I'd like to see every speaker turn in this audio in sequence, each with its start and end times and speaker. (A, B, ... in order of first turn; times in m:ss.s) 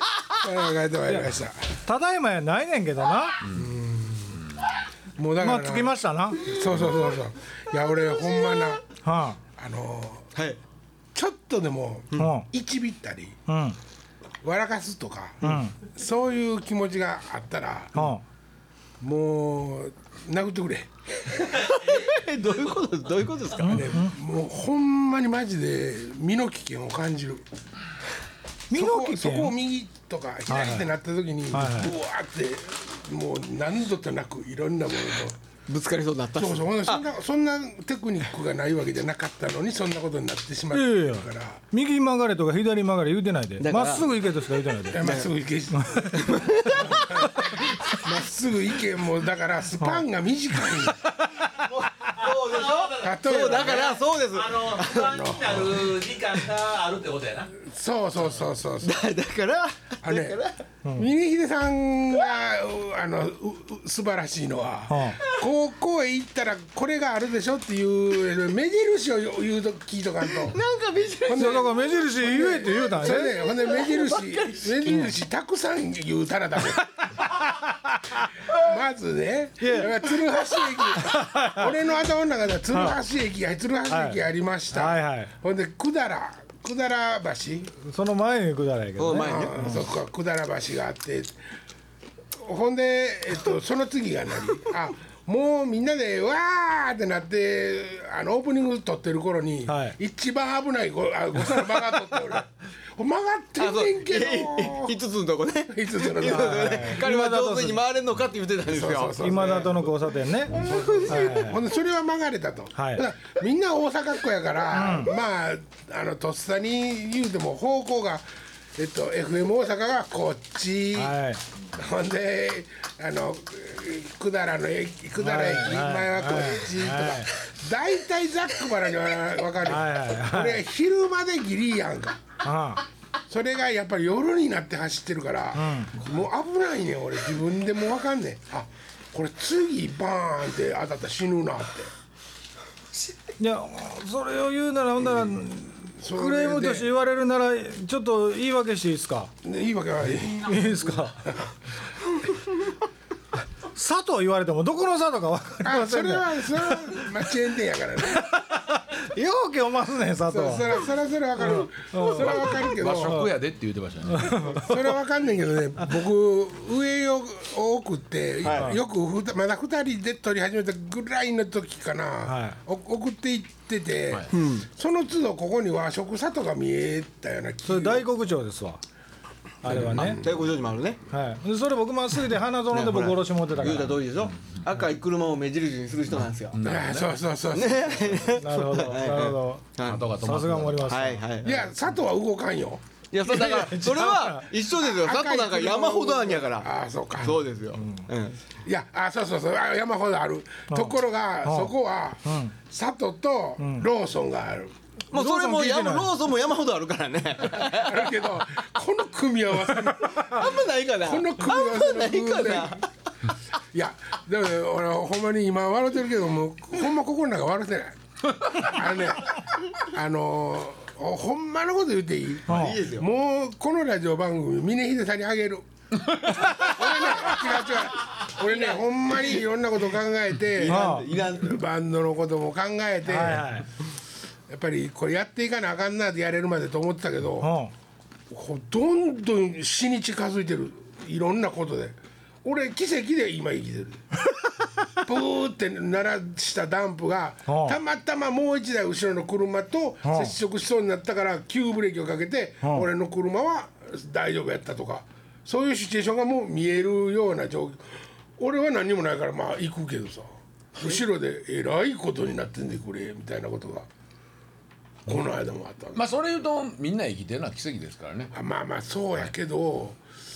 0:00.4-0:01.8 A
0:01.0-0:03.4 B
0:03.4-0:03.7 C
0:03.5-0:04.4 D
0:05.2-0:08.8 A
0:05.4-0:06.5 B
0:09.0-0:09.4 B
0:09.6-0:10.3 A
0:11.1-0:13.4 A
0:12.2-0:12.5 B
0:13.5-0:13.8 B
0:14.4-0:18.1 A
0:15.4-0:15.7 B
0:17.9-0:18.2 B
0:19.0-0:21.5 A
0:21.4-0:23.9 D
0:21.7-0:22.1 E
0:23.6-0:24.1 B
0:23.6-0:27.4 A
0:28.7-0:29.6 B
0:28.7-0:35.4 A
0:30.5-0:30.9 B
0:31.5-0:31.9 B
0:35.7-0:37.0 D
0:36.4-0:41.6 A
0:40.7-0:45.2 B
0:43.6-0:44.1 D
0:44.9-0:51.0 A
0:45.0-0:45.3 D
0:45.7-0:46.2 B
0:46.1-0:48.1 D
0:51.5-0:55.2 D
0:52.1-0:57.5 E
0:53.0-0:53.8 A
0:55.1-0:55.9 A
0:57.6-0:58.9 A
0:58.8-1:00.6 D
1:00.0-1:00.4 A
1:01.0-1:10.6 A
1:04.9-1:05.2 B
1:10.4-1:12.0 D
1:11.3-1:16.9 A
1:11.3-1:13.3 B
1:12.9-1:15.1 D
1:17.3-1:18.2 B
1:18.5-1:27.7 A
1:19.6-1:19.9 B
1:21.0-1:21.7 B
1:22.7-1:23.0 B
1:23.9-1:24.2 B
1:24.7-1:25.3 B
1:27.8-1:29.8 B
1:29.0-1:29.7 D
1:29.2-1:31.4 A
1:32.4-1:44.9 A
1:39.7-1:40.0 B
1:43.6-1:49.8 D
1:45.7-1:47.0 A
1:46.2-1:47.8 B
1:48.6-1:49.9 A
1:49.2-1:51.6 B
1:50.5-1:58.2 A
1:50.5-1:51.5 D
1:52.8-1:53.0 B
1:54.7-1:55.1 B
1:58.8-2:01.2 A
2:00.9-2:01.4 B
2:01.7-2:12.2 A
2:05.2-2:07.3 B
2:09.6-2:10.6 B
2:12.4-2:12.8 B
2:13.3-2:21.9 A
2:15.5-2:15.9 B
2:23.4-2:29.3 B
2:26.0-2:26.9 A
2:29.4-2:31.4 A
2:30.4-2:31.2 B
2:33.7-2:37.1 B
2:35.6-2:38.4 A
2:38.2-2:40.8 B
2:40.3-2:43.2 A
2:41.4-2:43.3 B
2:42.2-2:44.6 C
2:44.1-2:44.7 B
2:44.5-2:58.1 A
2:48.4-2:48.8 B
2:52.2-2:52.6 B
2:54.3-2:54.6 D
2:57.6-2:58.8 B
2:59.6-3:00.2 B
2:59.7-3:00.3 A
2:59.7-3:01.0 D
3:01.1-3:04.0 B
3:02.7-3:06.6 D
3:06.5-3:07.2 C
3:06.6-3:08.3 A
3:07.5-3:10.0 D
3:08.4-3:11.6 B
3:09.8-3:11.1 C
3:10.9-3:11.5 D
3:11.4-3:12.8 A
3:13.1-3:18.4 D
3:13.2-3:14.4 B
3:14.8-3:17.4 A
3:17.8-3:18.1 B
3:18.6-3:24.7 A
3:20.7-3:21.7 B
3:22.2-3:22.5 B
3:23.6-3:23.8 B
3:25.1-3:26.1 B
3:25.1-3:28.3 D
3:27.5-3:32.8 A
3:30.2-3:32.9 D
3:33.7-3:38.0 A
3:38.5-3:45.6 A
3:42.5-3:43.1 D
3:42.5-3:42.8 B
3:46.2-3:53.5 A
3:46.8-3:47.1 D
3:48.4-3:49.4 D
3:50.5-3:51.6 D
3:50.6-3:51.1 B
3:53.0-3:53.6 B
3:54.5-3:57.5 A
3:57.4-3:57.7 B
3:58.3-4:04.0 A
4:04.9-4:23.9 A
4:07.5-4:07.8 B
4:10.0-4:10.3 B
4:12.6-4:12.9 B
4:25.0-4:26.0 A
4:25.9-4:28.3 C
4:28.3-4:30.0 A